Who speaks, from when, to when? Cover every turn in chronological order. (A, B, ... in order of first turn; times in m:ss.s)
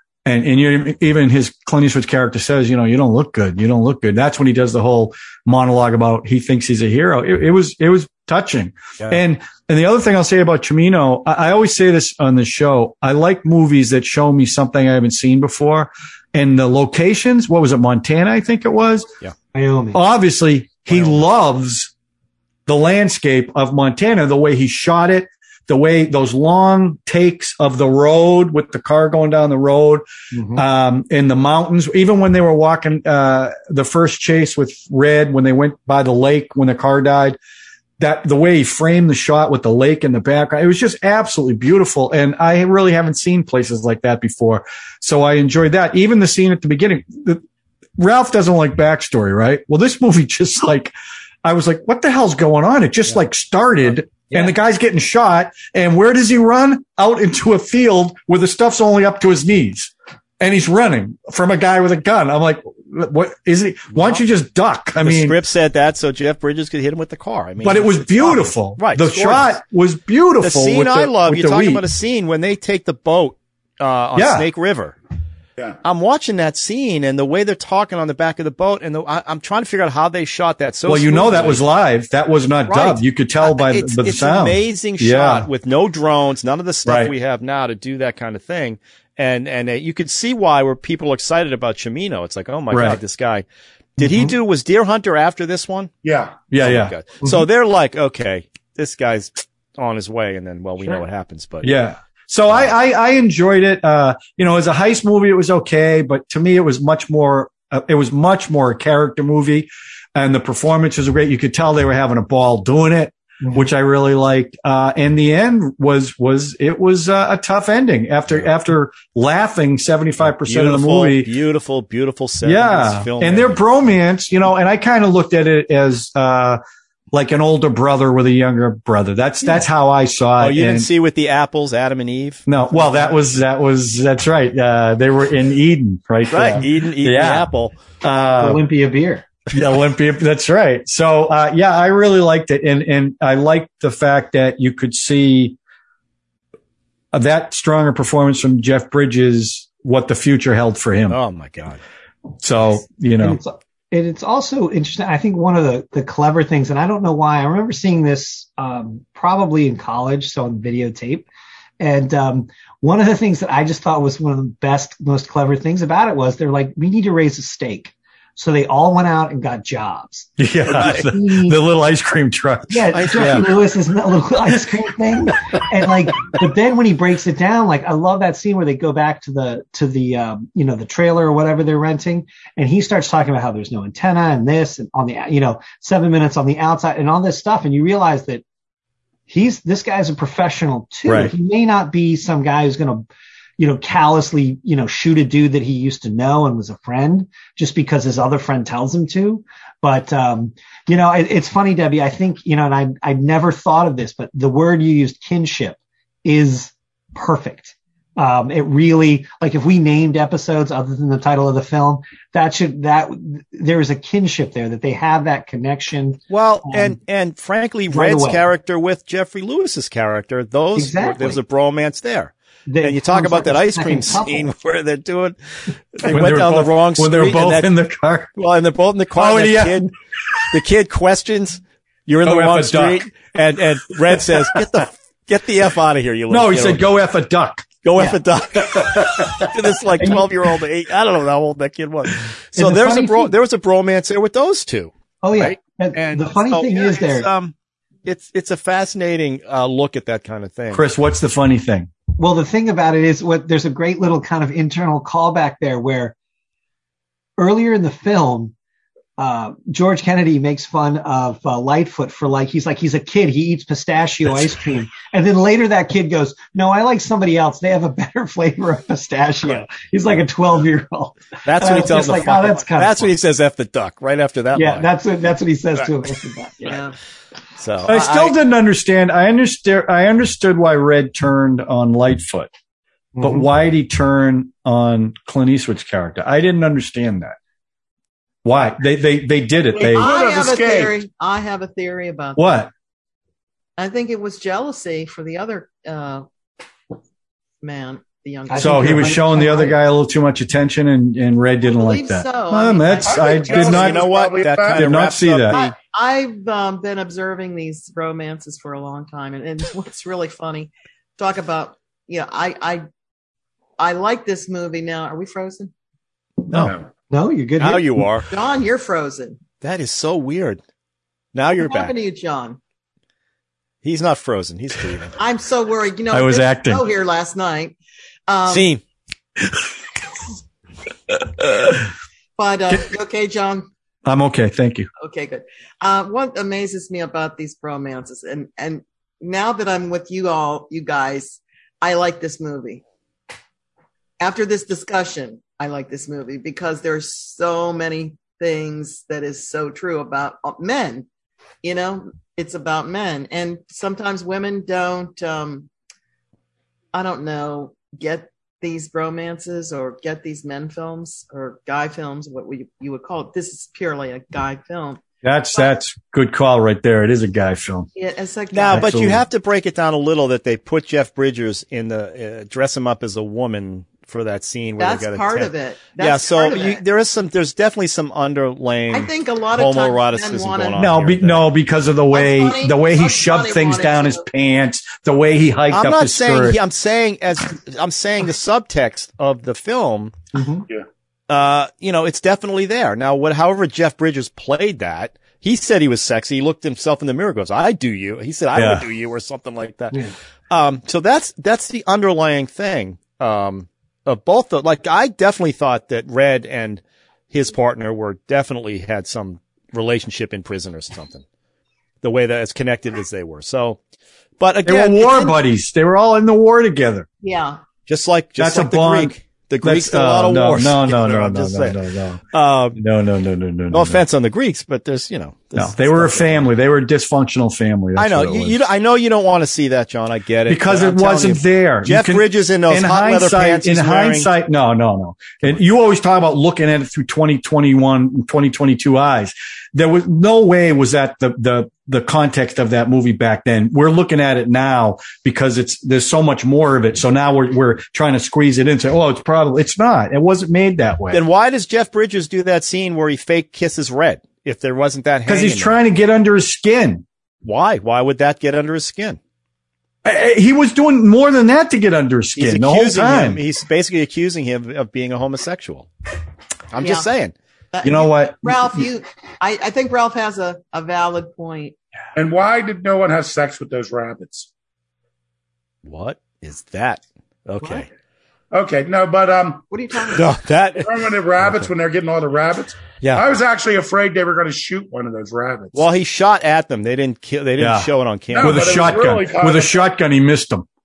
0:00.2-0:19.1 A
0:19.5-0:20.0 B
0:19.9-0:21.9 A
0:22.6-0:37.4 A
0:30.3-0:30.6 B
0:38.0-0:47.4 A
0:48.0-1:05.4 A
1:03.9-1:04.2 C
1:05.0-1:09.6 C
1:07.6-1:11.8 A
1:10.4-1:15.0 C
1:14.1-1:14.5 A
1:15.8-1:21.7 C
1:20.8-1:25.5 A
1:22.7-1:33.4 C
1:26.8-1:27.1 A
1:32.7-1:33.0 A
1:34.0-1:35.9 C
1:34.0-1:34.3 B
1:36.0-1:36.5 D
1:36.5-1:36.9 A
1:36.6-1:41.8 C
1:41.6-2:01.3 A
2:00.2-2:03.6 C
2:02.4-2:06.6 A
2:07.1-2:10.9 A
2:10.4-2:12.4 C
2:12.5-2:17.5 A
2:16.3-2:17.8 C
2:18.0-2:18.6 A
2:18.4-2:19.3 B
2:19.5-2:25.6 A
2:27.1-2:31.2 A
2:31.1-2:31.8 C
2:32.4-2:33.4 A
2:33.2-2:41.3 B
2:41.8-2:51.6 B
2:50.4-2:53.5 A
2:52.7-3:08.4 B
2:52.9-2:53.5 C
3:09.3-3:13.1 B
3:11.0-3:11.3 A
3:13.6-3:37.0 B
3:36.3-3:45.4 C
3:37.9-3:38.4 B
3:40.8-3:41.4 B
3:42.7-3:44.5 B
3:45.9-3:47.7 C
3:46.0-3:48.3 A
3:48.4-3:49.9 C
3:49.1-3:49.9 A
3:50.5-3:56.9 C
3:52.2-3:53.1 A
3:54.1-3:54.4 A
3:56.3-3:57.7 A
3:57.8-4:07.5 C
4:02.6-4:03.3 B
4:05.2-4:07.3 B
4:08.0-4:10.8 C
4:10.7-4:11.9 A
4:12.2-4:16.1 B
4:17.4-4:18.5 B
4:19.2-4:33.1 B
4:31.4-4:34.9 C
4:34.5-4:36.8 B
4:36.6-4:36.9 E
4:37.6-4:38.4 C
4:37.8-4:42.5 A
4:43.2-4:43.5 B
4:43.2-4:47.4 A
4:48.4-4:50.1 A
4:49.7-4:51.0 D
4:49.8-4:52.7 E
4:52.4-4:52.7 A
4:53.8-4:56.2 E
4:57.6-4:59.2 E
4:58.5-4:59.8 B
4:58.6-5:04.0 A
5:01.6-5:03.9 E
5:03.0-5:05.0 D
5:03.5-5:05.7 C
5:04.7-5:05.6 A
5:05.5-5:12.8 E
5:13.8-5:15.7 E
5:16.5-5:18.1 B
5:17.6-5:18.3 C
5:18.3-5:19.4 E
5:19.6-5:20.6 C
5:21.3-5:21.9 C
5:21.5-5:22.6 E
5:23.8-5:25.1 C
5:25.2-5:27.8 E
5:26.1-5:26.8 A
5:28.3-5:28.7 E
5:28.5-5:28.8 C
5:32.4-5:33.7 E
5:34.0-5:34.9 A
5:35.0-5:42.8 E
5:44.2-5:51.1 E
5:51.6-5:55.7 E
5:56.9-6:05.0 E
6:05.2-6:07.9 A
6:07.9-6:09.0 E
6:08.5-6:21.5 C
6:08.7-6:09.2 A
6:14.8-6:16.8 E
6:18.9-6:20.9 E
6:20.8-6:26.6 A
6:22.1-6:24.2 E
6:25.7-6:30.2 C
6:30.3-6:30.6 B
6:31.3-6:40.0 C
6:38.5-6:38.8 A
6:40.5-6:51.2 C
6:52.0-6:53.8 C
6:54.4-6:55.4 C
6:54.6-6:57.1 A
6:57.2-6:57.6 E
6:57.8-7:01.8 C
6:58.4-7:02.2 A
7:02.3-7:02.8 C
7:02.7-7:04.0 A
7:03.7-7:06.4 C
7:05.5-7:08.6 A
7:08.0-7:14.3 C
7:10.5-7:31.2 A
7:31.1-7:35.8 C
7:35.2-7:37.0 A
7:37.4-7:39.2 C
7:40.0-7:43.4 A
7:42.4-7:45.9 C
7:46.7-7:47.3 C
7:46.8-7:47.1 E
7:47.7-7:51.8 E
7:47.8-7:48.8 A
7:52.2-7:54.5 D
7:55.8-7:57.9 C
7:58.5-8:00.2 D
7:59.7-8:00.3 E
8:00.1-8:00.9 C
8:00.8-8:05.8 D
8:05.7-8:08.9 C
8:07.6-8:10.6 A
8:08.3-8:09.8 D